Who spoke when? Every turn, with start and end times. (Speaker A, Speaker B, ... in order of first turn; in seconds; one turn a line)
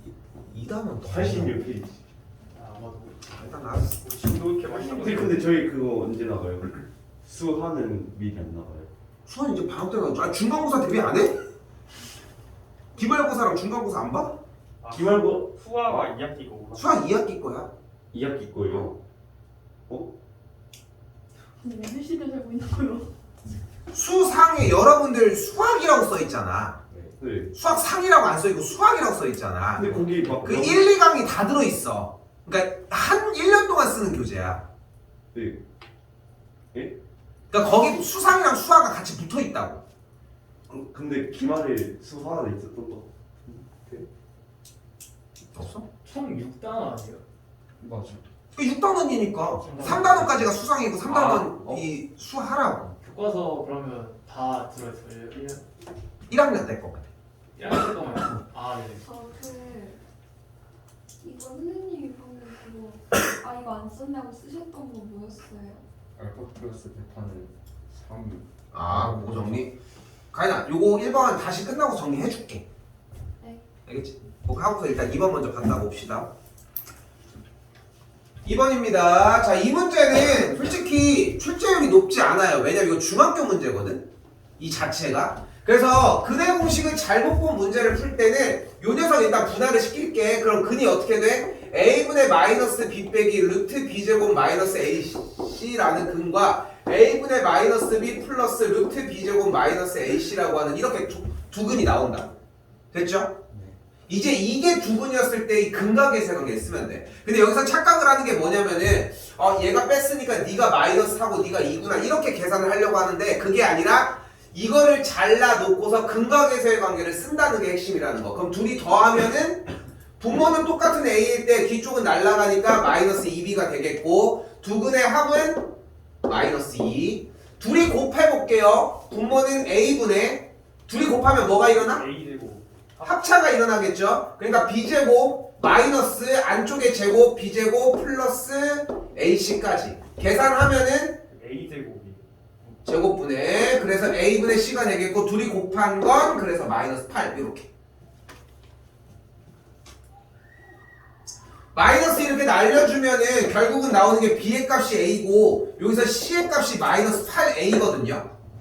Speaker A: 0.4-1.6
Speaker B: 1.0-2.0
Speaker C: 2.5-3.2
Speaker A: 3.3-4.0
Speaker D: 4.0-5.6
Speaker B: 4.7-8.9
Speaker A: 9.3-11.4
Speaker A: 12.9-14.4
Speaker D: 14.8-17.0
Speaker B: 14.9-16.1
Speaker A: 16.8-17.7
Speaker B: 18.1-18.9
Speaker E: 21.6-23.1
Speaker A: 23.9-26.8
Speaker F: 26.9-27.2
Speaker B: 27.2-27.5
Speaker A: 27.5-34.6
Speaker B: 29.7-30.9
Speaker B: 35.3-35.6
Speaker A: 37.5-39.8
Speaker B: 40.7-44.1
Speaker A: 45.5-45.9
Speaker C: 46.0-47.2
Speaker F: 47.8-48.2
Speaker A: 48.5-52.9
Speaker F: 49.6-50.3
Speaker C: 49.6-50.5
Speaker C: 51.1-51.8
Speaker C: 53.0-55.6
Speaker A: 56.3-57.0
Speaker C: 57.5-59.0
Speaker E: 59.0-60.0
Speaker E: 61.2-65.8
Speaker F: 66.2-69.7
Speaker A: 68.7-69.7
Speaker A: 70.3-72.6
Speaker A: 73.8-76.3
Speaker A: 78.4-84.0
Speaker A: 84.6-102.3
Speaker A: 102.9-103.3
Speaker F: 103.5-103.8
Speaker A: 104.1-119.7
Speaker A: 120.2-125.7
Speaker A: 126.2-132.1
Speaker D: 131.7-133.3
Speaker A: 133.0-141.2
Speaker D: 141.3-142.2
Speaker A: 142.8-147.7
Speaker A: 151.7-158.2